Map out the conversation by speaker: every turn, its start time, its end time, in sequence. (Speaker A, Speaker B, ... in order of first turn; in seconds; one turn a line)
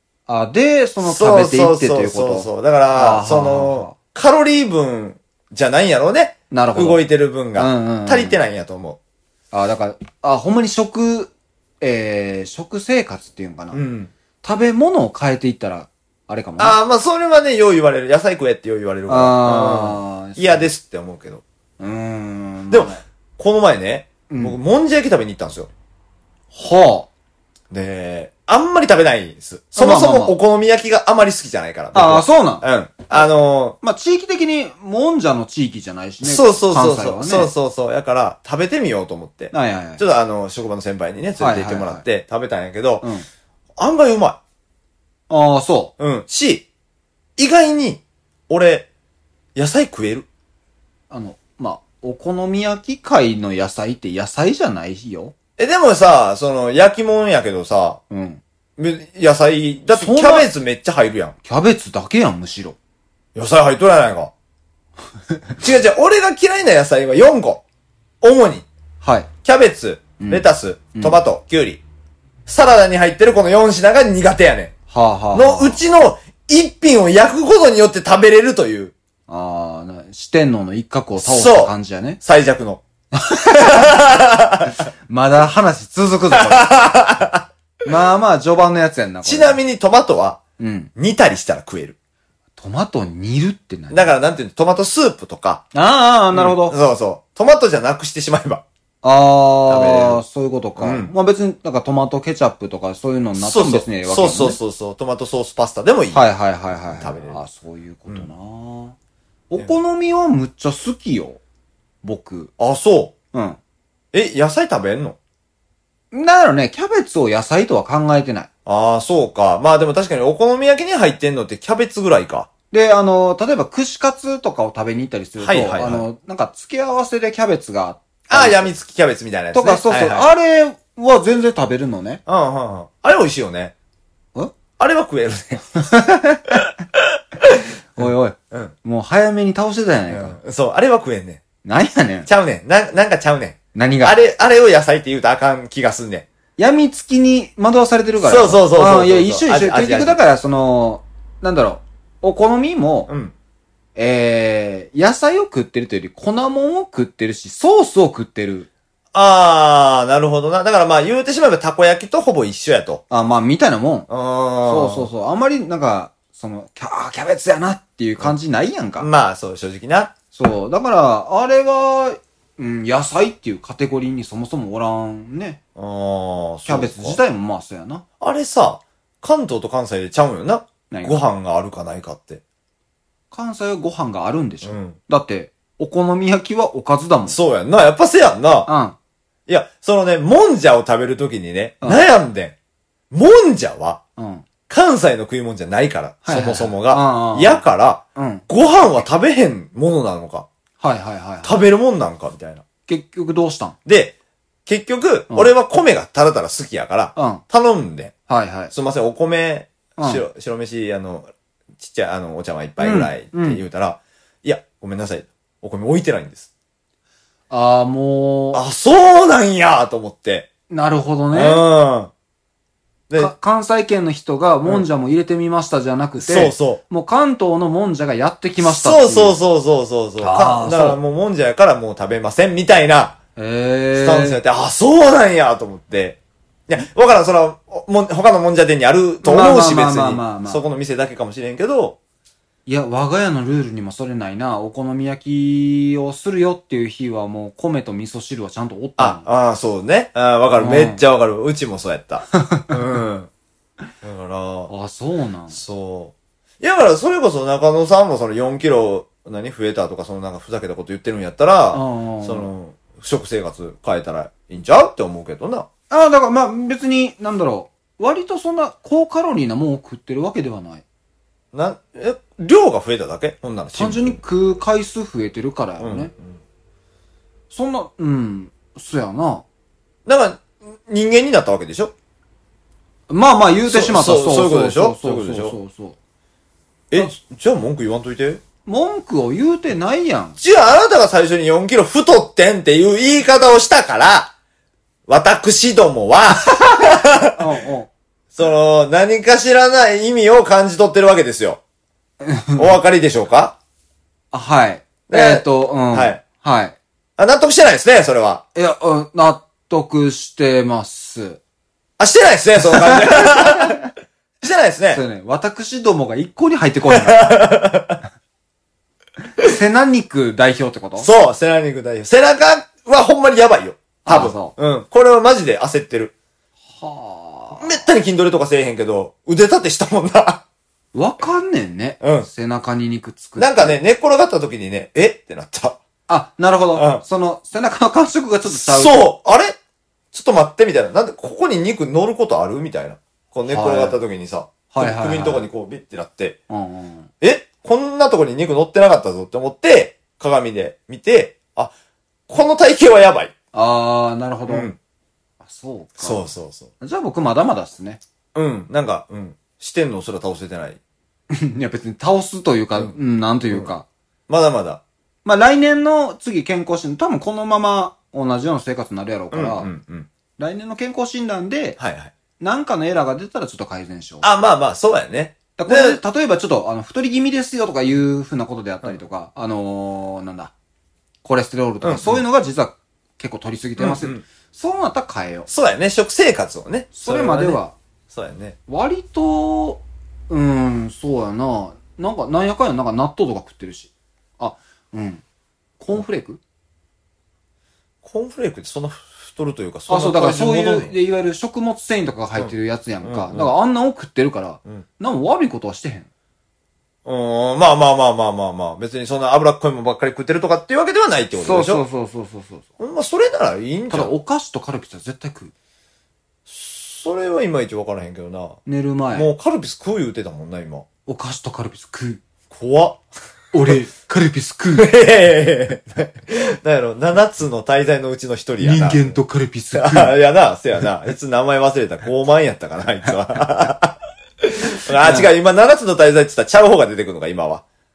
Speaker A: 0.3-4.0
Speaker B: 1.0-9.0
Speaker A: 6.5-7.0
Speaker A: 7.5-8.4
Speaker A: 9.5-13.8
Speaker B: 13.7-14.1
Speaker A: 14.4-16.8
Speaker B: 16.6-21.4
Speaker A: 19.1-20.7
Speaker A: 21.8-23.0
Speaker B: 22.7-25.7
Speaker A: 24.3-24.6
Speaker A: 26.5-27.1
Speaker B: 27.7-33.8
Speaker A: 29.8-30.4
Speaker A: 31.9-32.6
Speaker A: 33.8-37.5
Speaker B: 36.2-43.0
Speaker A: 39.5-40.0
Speaker A: 41.4-42.0
Speaker A: 43.0-43.3
Speaker B: 43.8-44.4
Speaker A: 45.3-45.9
Speaker B: 46.0-46.7
Speaker B: 47.4-48.9
Speaker B: 49.5-50.3
Speaker A: 51.1-55.4
Speaker B: 55.6-58.0
Speaker A: 58.1-58.4
Speaker B: 58.8-61.4
Speaker A: 59.9-60.5
Speaker A: 61.4-62.8
Speaker B: 63.4-64.3
Speaker B: 65.6-67.6
Speaker B: 68.2-68.7
Speaker A: 69.0-69.3
Speaker B: 69.4-71.8
Speaker A: 70.2-71.2
Speaker B: 72.5-74.8
Speaker A: 74.9-75.8
Speaker B: 75.3-78.9
Speaker A: 79.3-82.2
Speaker B: 81.2-82.8
Speaker A: 83.1-84.0
Speaker B: 83.5-84.8
Speaker A: 84.7-86.8
Speaker B: 86.3-87.5
Speaker A: 87.8-89.6
Speaker B: 89.2-90.4
Speaker A: 90.6-90.9
Speaker B: 91.0-92.0
Speaker A: 92.6-94.1
Speaker B: 93.9-95.6
Speaker A: 95.7-96.8
Speaker B: 96.3-98.6
Speaker A: 99.0-104.6
Speaker B: 99.7-100.2
Speaker B: 100.8-101.1
Speaker B: 103.4-106.3
Speaker A: 106.1-109.0
Speaker B: 106.9-107.4
Speaker A: 109.5-111.4
Speaker A: 112.0-112.5
Speaker B: 112.6-113.1
Speaker A: 113.3-113.6
Speaker B: 114.1-115.2
Speaker A: 116.1-118.5
Speaker B: 118.7-122.5
Speaker A: 122.7-128.7
Speaker B: 125.4-126.0
Speaker B: 128.3-130.3
Speaker A: 129.5-132.2
Speaker B: 132.3-133.7
Speaker B: 134.8-135.6
Speaker A: 135.7-136.7
Speaker B: 137.0-138.7
Speaker A: 138.0-140.4
Speaker B: 140.1-141.4
Speaker A: 141.6-142.3
Speaker B: 142.3-146.3
Speaker A: 143.8-144.2
Speaker A: 146.6-153.1
Speaker B: 148.2-150.2
Speaker B: 153.1-153.3
Speaker A: 154.0-158.7
Speaker B: 159.1-163.0
Speaker A: 163.1-164.1
Speaker B: 164.1-165.1
Speaker A: 164.7-169.1
Speaker B: 169.0-170.1
Speaker A: 170.3-175.6
Speaker B: 175.8-177.2
Speaker A: 176.7-178.0
Speaker B: 178.2-182.4
Speaker A: 180.9-181.2
Speaker A: 183.3-187.4
Speaker B: 184.6-185.0
Speaker B: 187.3-188.7
Speaker A: 188.7-189.0
Speaker B: 189.5-192.5
Speaker B: 193.1-194.0
Speaker A: 194.2-194.4
Speaker B: 194.7-200.5
Speaker A: 196.2-197.6
Speaker A: 198.2-198.4
Speaker A: 200.8-201.6
Speaker B: 201.4-202.6
Speaker A: 202.9-203.8
Speaker B: 203.9-204.2
Speaker B: 204.7-208.1
Speaker A: 207.2-207.4
Speaker A: 208.3-208.7
Speaker B: 208.7-211.3
Speaker A: 210.0-210.2
Speaker B: 211.8-216.5
Speaker A: 212.8-213.6
Speaker A: 217.5-218.6
Speaker B: 218.5-220.5
Speaker A: 220.7-221.6
Speaker B: 221.3-222.1
Speaker A: 223.2-229.4
Speaker B: 226.2-226.8
Speaker B: 228.6-233.2
Speaker A: 230.2-231.0
Speaker A: 233.4-234.4
Speaker B: 233.9-242.0
Speaker A: 239.2-240.6
Speaker A: 242.7-249.2
Speaker B: 249.0-253.3
Speaker A: 250.6-251.0
Speaker A: 252.3-252.8
Speaker B: 254.0-254.7
Speaker A: 254.7-255.6
Speaker B: 255.5-265.7
Speaker A: 261.7-262.5
Speaker A: 265.9-270.8
Speaker B: 271.5-274.2
Speaker A: 273.7-276.1
Speaker B: 275.8-276.4
Speaker A: 277.5-279.4
Speaker B: 280.1-281.9
Speaker A: 283.1-286.0
Speaker B: 283.7-285.6
Speaker B: 286.9-288.4
Speaker A: 288.7-290.4
Speaker B: 290.4-294.3
Speaker B: 295.1-297.5
Speaker A: 296.6-297.9
Speaker B: 298.4-301.6
Speaker A: 302.2-302.8
Speaker B: 302.6-303.6
Speaker A: 304.3-306.8
Speaker B: 305.1-306.2
Speaker B: 307.2-308.4
Speaker A: 308.6-311.4
Speaker B: 312.0-313.9
Speaker A: 312.8-313.8
Speaker B: 314.4-315.0
Speaker A: 314.9-317.5
Speaker B: 316.9-318.0
Speaker A: 319.4-321.1
Speaker B: 321.0-326.1
Speaker A: 324.1-324.6
Speaker A: 326.7-327.8
Speaker B: 327.6-330.4
Speaker A: 330.9-333.8
Speaker B: 332.0-332.3
Speaker B: 333.4-335.8
Speaker A: 336.1-339.1
Speaker B: 336.8-337.0
Speaker B: 338.5-339.6
Speaker B: 340.1-346.4
Speaker A: 343.5-344.0
Speaker A: 344.7-345.5
Speaker A: 346.5-347.1
Speaker B: 347.2-351.7
Speaker B: 352.3-353.3
Speaker A: 353.5-354.7
Speaker B: 354.5-354.8
Speaker A: 355.4-356.2
Speaker B: 356.0-356.7
Speaker A: 356.8-358.0
Speaker B: 358.4-360.8
Speaker A: 361.3-363.9
Speaker B: 364.3-364.8
Speaker A: 365.2-369.7
Speaker B: 369.3-370.1
Speaker A: 370.4-371.8
Speaker B: 371.8-372.1
Speaker A: 372.4-374.3
Speaker B: 374.2-376.0
Speaker A: 375.6-380.5
Speaker A: 381.2-385.5
Speaker B: 381.8-382.2
Speaker B: 383.8-384.2
Speaker B: 385.5-388.6
Speaker A: 386.9-387.8
Speaker A: 388.7-395.2
Speaker A: 395.8-396.4
Speaker B: 398.0-400.9
Speaker A: 399.9-406.1
Speaker B: 403.0-403.5
Speaker B: 407.1-411.8
Speaker A: 411.4-412.7
Speaker B: 412.8-414.1
Speaker A: 413.9-415.5
Speaker B: 416.5-418.6
Speaker A: 418.7-419.3
Speaker B: 419.1-420.9
Speaker A: 421.1-422.2
Speaker B: 422.5-423.0
Speaker A: 423.5-424.9
Speaker B: 424.8-429.2
Speaker A: 428.6-430.1
Speaker B: 429.7-437.6
Speaker A: 435.0-435.3